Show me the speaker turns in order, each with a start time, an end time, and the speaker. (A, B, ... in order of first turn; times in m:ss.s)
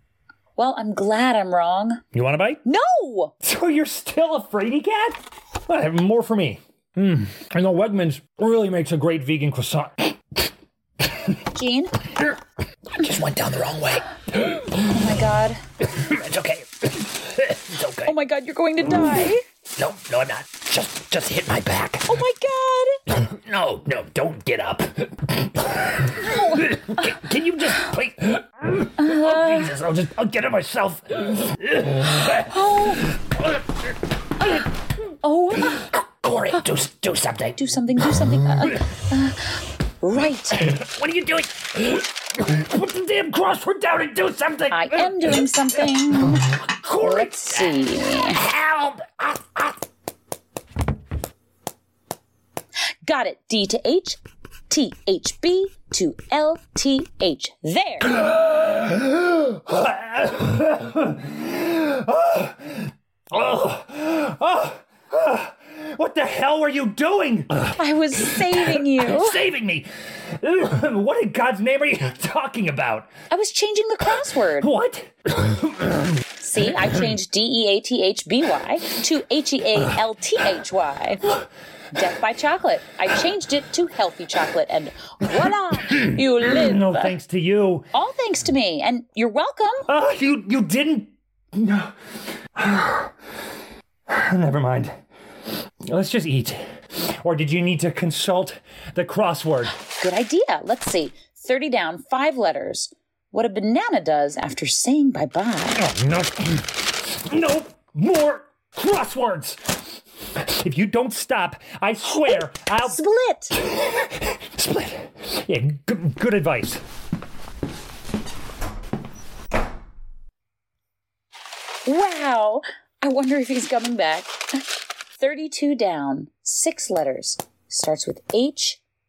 0:00.6-0:02.0 A
0:02.1-0:02.6 B
0:02.6-0:03.3 A
0:03.4-0:10.1 B
0:11.4-0:12.1 A
0:13.0-0:14.8 B
0:14.8-0:15.6 A
0:15.8-0:18.1 B
0:18.0-0:19.4 A
0:19.8-0:22.1 B
0:22.1-0:23.0 A
0:23.1-0:32.5 B
0:26.2-0:26.8 A
0:29.0-0:29.7 A
0:32.4-0:33.1 A
0:35.2-0:35.9 A
0:35.9-0:38.2 B
0:37.6-0:40.8 A
0:40.6-0:45.5 B
0:44.7-0:48.4 A
0:46.2-0:49.7 B
0:53.0-0:58.2 A
0:58.2-1:07.8 B
1:07.8-1:09.4 A
1:08.4-1:13.1 B
1:13.3-1:14.7 A
1:14.6-1:16.2 B
1:16.4-1:21.4 A
1:21.9-1:27.1 A
1:26.0-1:27.8 B
1:27.9-1:29.9 A
1:29.9-1:31.9 B
1:32.5-1:33.1 B
1:34.1-1:35.0 B
1:35.9-1:39.8 B
1:39.8-1:45.9 A
1:45.8-1:49.7 B
1:50.4-1:53.0 B
1:52.3-1:53.5 A
1:53.6-1:56.8 B
2:01.8-2:04.6 A
2:05.2-2:08.8 A